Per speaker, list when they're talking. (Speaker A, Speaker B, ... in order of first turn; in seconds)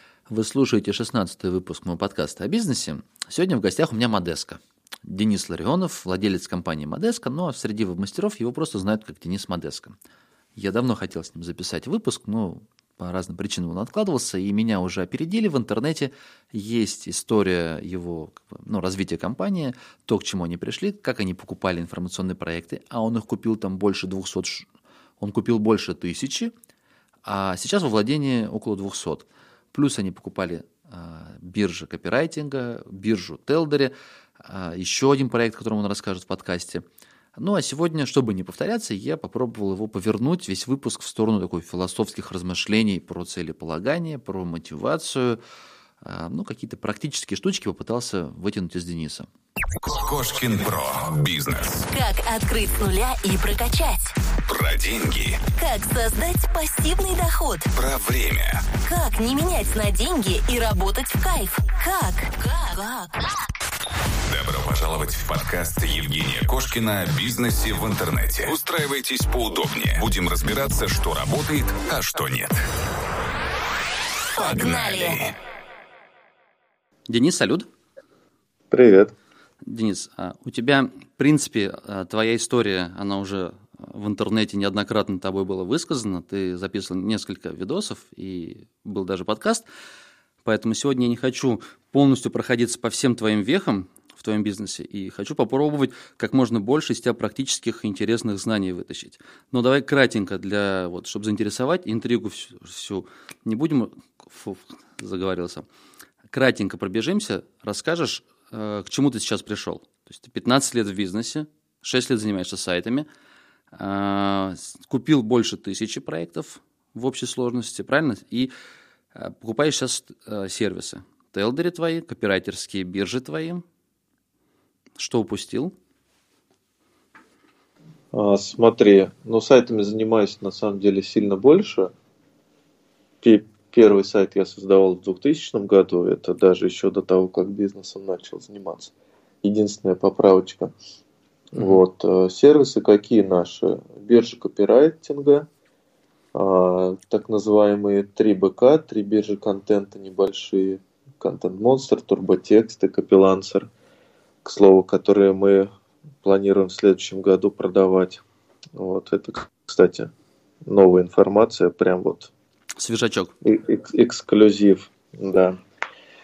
Speaker A: 0.3-9.9, 10.6-24.7, 25.2-26.5, 27.2-36.9, 37.4-45.4, 46.0-49.3, 77.1-77.7, 79.6-89.7, 90.4-105.7, 106.3-113.1, 113.7-118.5, 119.2-123.6, 125.0-125.7, 141.6-141.8, 162.8-163.3
Speaker B: 49.8-51.9, 54.5-55.5, 57.7-58.7, 64.2-72.6, 74.4-75.3
Speaker C: 51.9-54.2, 55.5-57.7, 58.8-63.2, 74.4-75.3
Speaker D: 78.7-79.1, 128.1-131.9, 133.2-140.7, 141.5-145.5, 146.3-153.7, 154.4-155.7, 156.2-158.2, 158.8-160.1, 160.7-162.3, 163.4-165.6